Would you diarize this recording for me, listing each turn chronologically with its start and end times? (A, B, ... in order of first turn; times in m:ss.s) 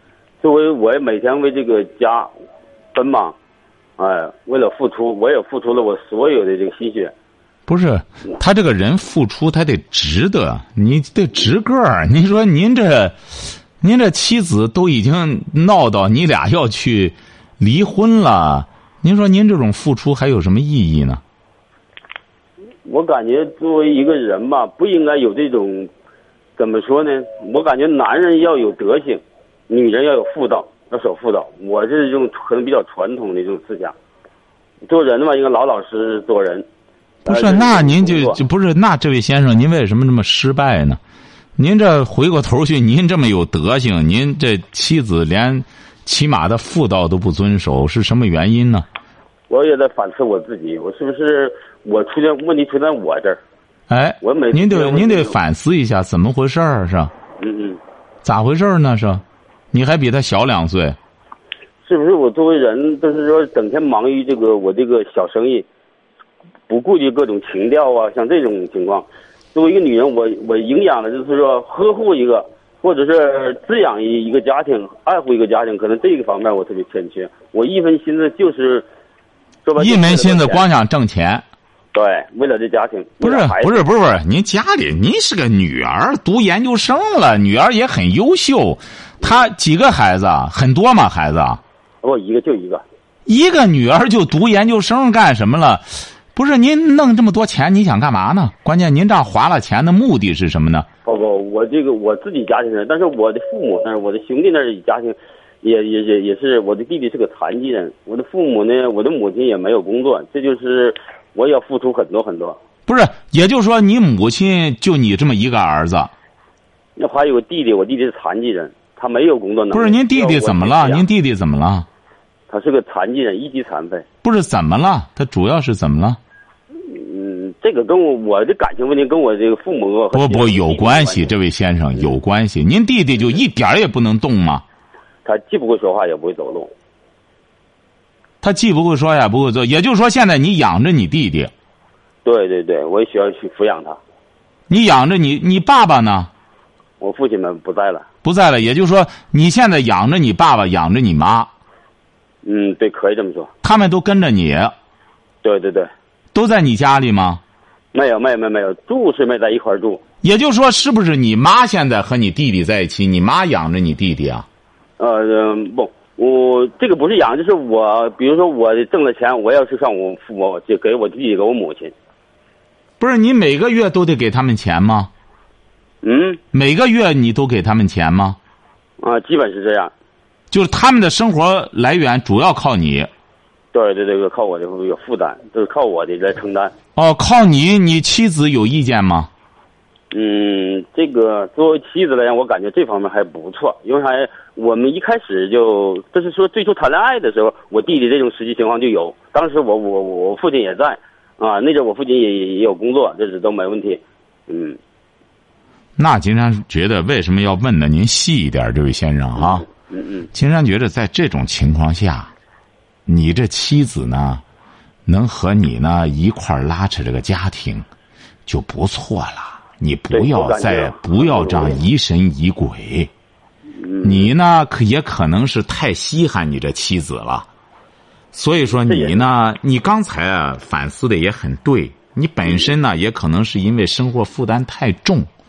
0:00.4-0:02.3 A
0:02.9-0:03.4 A
0:04.0-0:07.1 A
0:07.7-0:21.2 B
0:22.8-0:25.9 A
0:26.6-0:33.9 A
0:34.8-0:36.6 A
0:37.2-0:41.0 B
0:37.2-0:38.4 A
0:41.6-0:48.8 B
0:49.5-0:53.4 A
0:53.9-0:57.1 B
0:54.2-0:55.3 A
0:57.4-0:57.8 A
0:58.2-1:01.0 B
1:01.8-1:05.7 A
1:06.7-1:18.9 A
1:19.6-1:20.6 A
1:19.8-1:21.4 B
1:21.9-1:23.8 A
1:23.2-1:31.6 B
1:32.0-1:32.8 A
1:33.2-1:40.9 B
1:41.0-1:52.6 A
1:52.9-1:56.1 B
1:57.0-2:01.0 A
1:59.7-2:01.9 B
2:02.5-2:04.0 A
2:04.2-2:06.2 B
2:06.8-2:11.3 A
2:10.1-2:14.6 B
2:15.2-2:16.7 A
2:18.4-2:21.5 B
2:22.2-2:24.0 A
2:24.7-2:26.3 B
2:27.0-2:28.0 A
2:28.2-2:31.5 B
2:32.4-2:33.5 A
2:33.6-2:34.7 B
2:35.4-2:35.9 A
2:36.3-2:37.4 B
2:37.9-2:40.0 A
2:40.2-2:44.4 B
2:45.0-2:51.9 A
2:53.0-2:55.1 B
2:56.0-2:56.4 A
2:56.5-2:58.4 B
2:59.0-2:59.9 A
3:00.5-3:03.1 B
3:03.7-3:06.7 A
3:07.0-3:09.3 B
3:10.1-3:24.8 A
3:26.0-3:29.6 B
3:29.4-3:30.3 A
3:30.3-3:32.3 B
3:33.0-3:34.4 B
3:35.0-3:37.8 B
3:38.5-3:43.1 B
3:40.1-3:41.8 A
3:43.7-3:44.3 A
3:44.0-3:47.5 B
3:48.3-3:55.3 B
3:48.7-3:49.2 A
3:52.4-3:52.7 A